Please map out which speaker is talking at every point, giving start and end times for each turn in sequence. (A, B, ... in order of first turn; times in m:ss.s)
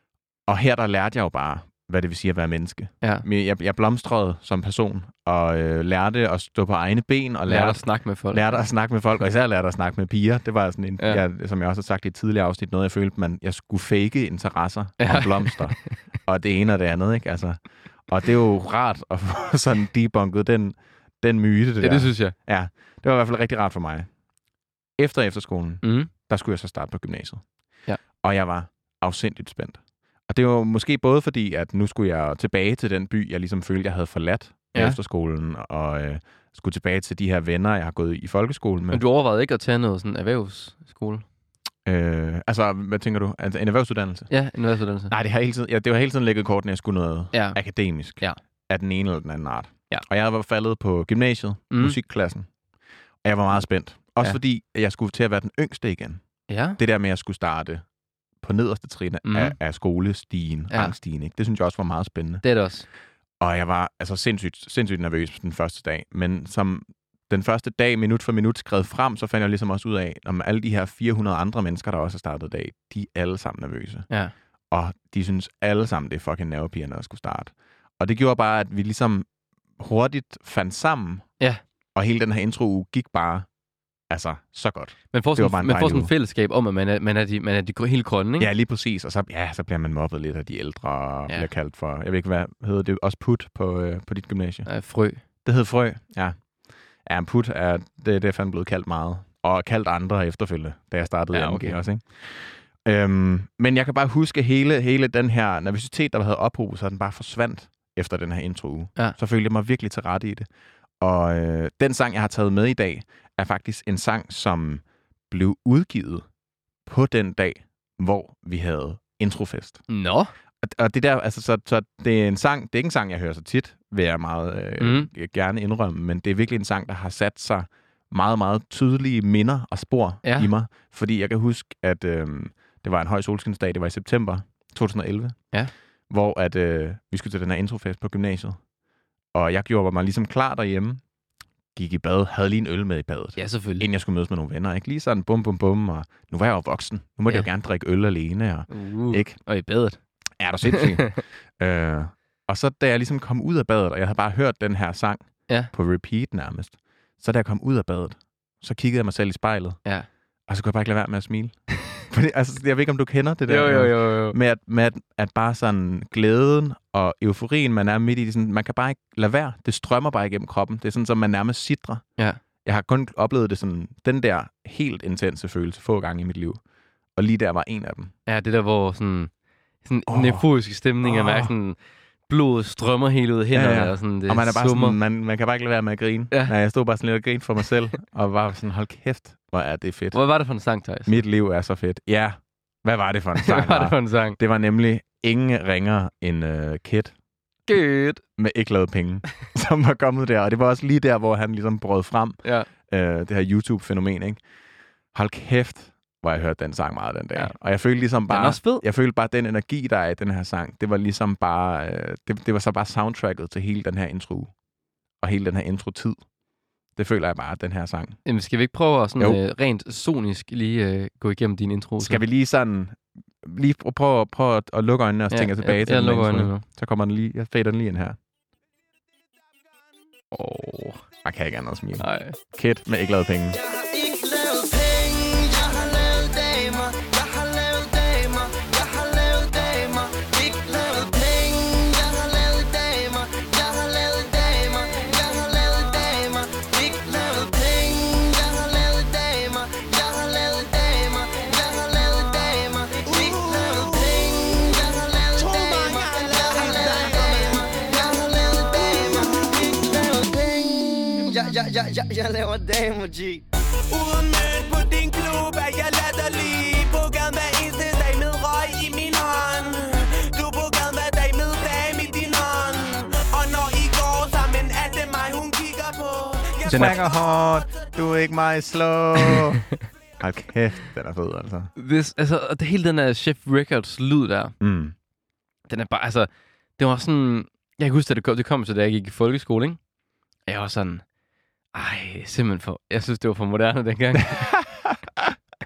0:00.5-0:24.1 A
0:07.5-0:08.6 B
0:15.0-0:15.7 B
0:21.8-0:22.3 B
0:25.0-0:27.4 A
0:25.8-0:26.1 B
0:28.2-0:39.0 A
0:38.9-0:41.2 B
0:41.8-0:44.3 A
0:44.3-0:45.1 B
0:45.1-0:52.5 A
0:47.3-0:47.6 B
0:51.7-0:52.0 B
0:53.2-0:56.2 A
0:56.5-0:56.8 B
0:56.8-0:57.8 A
0:58.4-1:02.4 A
0:59.2-0:59.6 B
1:02.4-1:02.8 B
1:03.4-1:14.1 A
1:14.7-1:19.2 A
1:19.8-1:21.2 A
1:21.9-1:23.5 A
1:24.1-1:26.1 A
1:25.1-1:28.5 B
1:28.4-1:34.7 A
1:34.6-1:35.2 B
1:35.4-1:36.4 A
1:37.0-1:50.5 A
1:41.3-1:41.8 B
1:51.0-1:56.2 A
1:56.8-1:59.8 A
1:59.9-2:00.3 B
2:00.6-2:15.4 A
2:04.8-2:05.1 B
2:10.2-2:10.5 B
2:16.1-2:18.6 A
2:19.3-2:21.0 A
2:21.7-2:29.4 A
2:23.4-2:23.9 B
2:28.7-2:30.0 B
2:30.4-2:39.8 A
2:30.7-2:31.2 B
2:40.5-2:52.0 A
2:43.5-2:44.4 B
2:52.6-2:56.6 A
2:57.2-2:58.1 A
2:58.2-2:59.3 B
2:59.8-3:01.8 B
3:00.1-3:00.4 A
3:01.0-3:01.5 A
3:02.3-3:05.0 B
3:03.5-3:10.2 A
3:10.1-3:11.2 B
3:11.1-3:17.1 A
3:13.4-3:14.4 B
3:17.7-3:18.2 B
3:18.4-3:24.4 A
3:22.4-3:22.7 B
3:25.1-3:34.5 A
3:28.3-3:28.8 B
3:35.2-3:36.2 A
3:37.0-3:38.2 A
3:38.2-3:42.2 B
3:42.0-3:48.2 A
3:45.3-3:46.6 B
3:50.3-3:51.0 B
3:51.2-3:53.6 A
3:52.0-3:52.4 B
3:53.5-4:23.4 C
4:15.5-4:17.1 D
4:24.0-4:29.6 D
4:30.3-4:36.6 D
4:36.7-4:39.6 A
4:36.7-4:37.0 B
4:40.2-4:41.7 A
4:41.8-4:44.5 B
4:44.6-4:44.9 A
4:45.7-4:49.8 B
4:50.5-4:51.0 B
4:51.7-4:54.4 B
4:54.3-4:55.3 A